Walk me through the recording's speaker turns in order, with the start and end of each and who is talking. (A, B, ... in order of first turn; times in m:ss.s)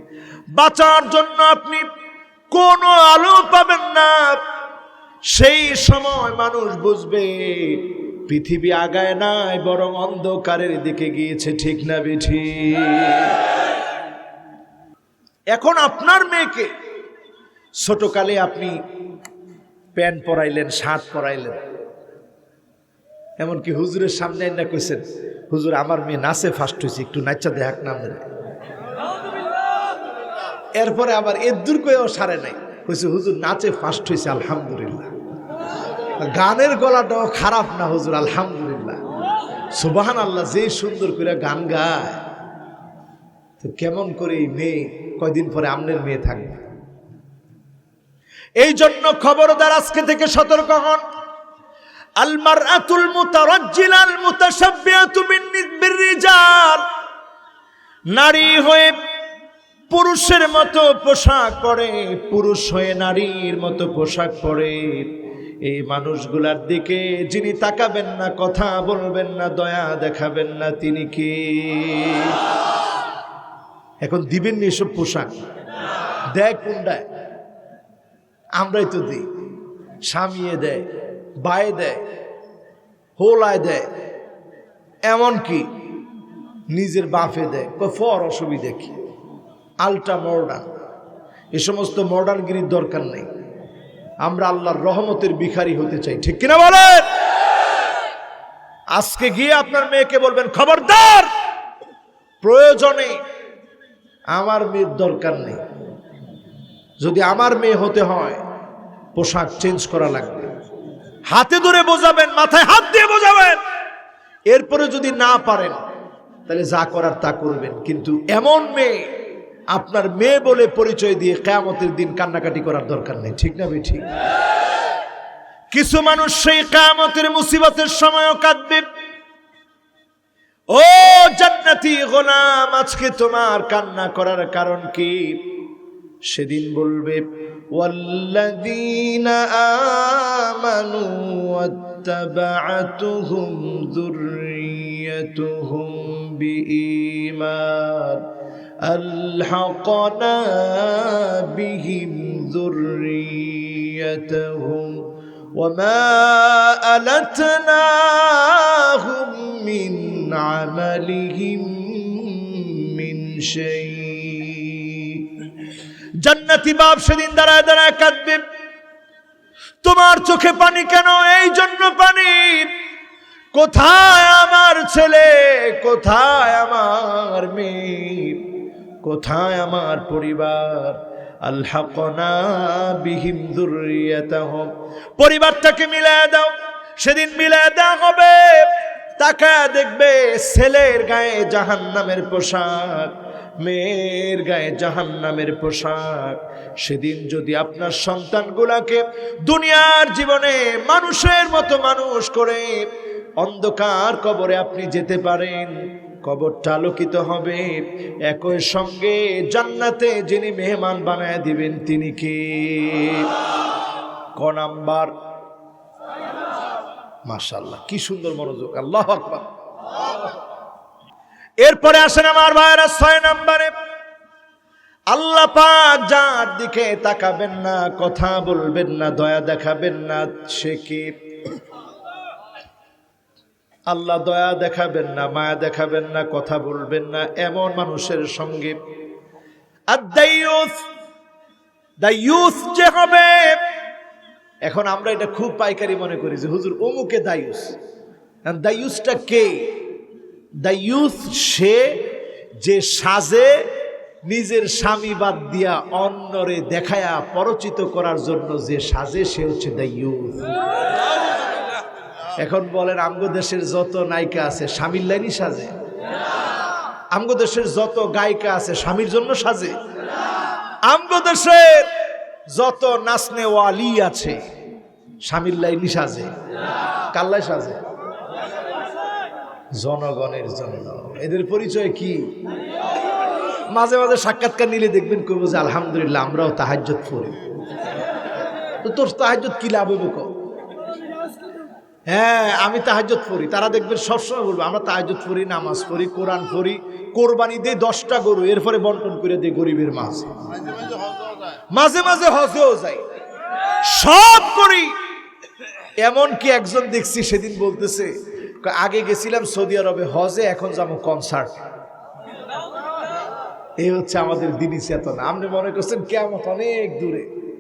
0:00.6-0:01.8 A
0:02.5-0:04.4 A
0:05.3-0:13.4 A
0:15.5-0:16.7 A
0:17.8-0:18.8 A
0:20.0-0:21.6 A
0:23.4-0:28.2 A
0:30.8-0:35.1 A
0:36.2-0:39.0 A
0:39.8-0:42.2 A
0:43.6-0:46.6 A
0:48.6-0:51.0 A
0:52.2-0:56.8 A
0:58.1-0:58.9 A
0:59.9-1:05.1 A
1:05.6-1:12.4 A
1:14.0-1:15.4 A
1:16.4-1:17.0 A
1:18.6-1:19.3 A
1:20.1-1:20.9 A
1:21.4-1:22.0 A
1:23.2-1:23.8 A
1:25.1-1:25.6 A
1:26.7-1:28.9 A
1:29.8-1:30.7 A
1:31.5-1:33.3 A
1:34.2-1:37.1 A
1:39.0-1:41.3 A
1:42.4-1:43.2 A
1:44.3-1:45.6 A
1:47.0-1:48.4 A
1:49.2-1:50.5 A
1:51.3-1:53.6 A
1:54.5-1:55.8 A
1:56.5-1:59.1 A
1:59.7-2:04.1 A
2:05.7-2:08.9 A
2:10.7-2:15.6 A
2:16.3-2:17.2 A
2:17.7-2:28.3 A
2:28.8-2:45.4 A
2:46.2-2:48.4 A
2:49.8-2:52.7 A
2:53.5-3:22.8 A
3:23.4-3:33.4 A
3:34.4-3:35.1 A
3:37.3-3:39.4 A
3:41.6-3:43.7 A
3:45.1-3:51.2 A
3:53.9-3:58.8 A
3:59.9-4:00.8 A
4:02.0-4:03.6 A
4:04.7-4:07.7 A
4:08.5-4:09.7 A
4:10.6-4:12.1 A
4:12.6-4:13.6 A
4:14.3-4:20.5 A
4:22.4-4:25.7 A
4:27.1-4:29.8 A
4:30.9-4:31.9 A
4:32.5-4:34.4 A
4:35.2-4:36.3 A
4:37.1-4:37.8 A
4:39.8-4:42.3 A
4:43.7-4:47.4 A
4:48.8-4:50.3 A
4:52.1-5:00.3 A
5:01.7-5:03.0 A
5:03.8-5:05.0 A
5:06.0-5:11.6 A
5:13.8-5:17.3 A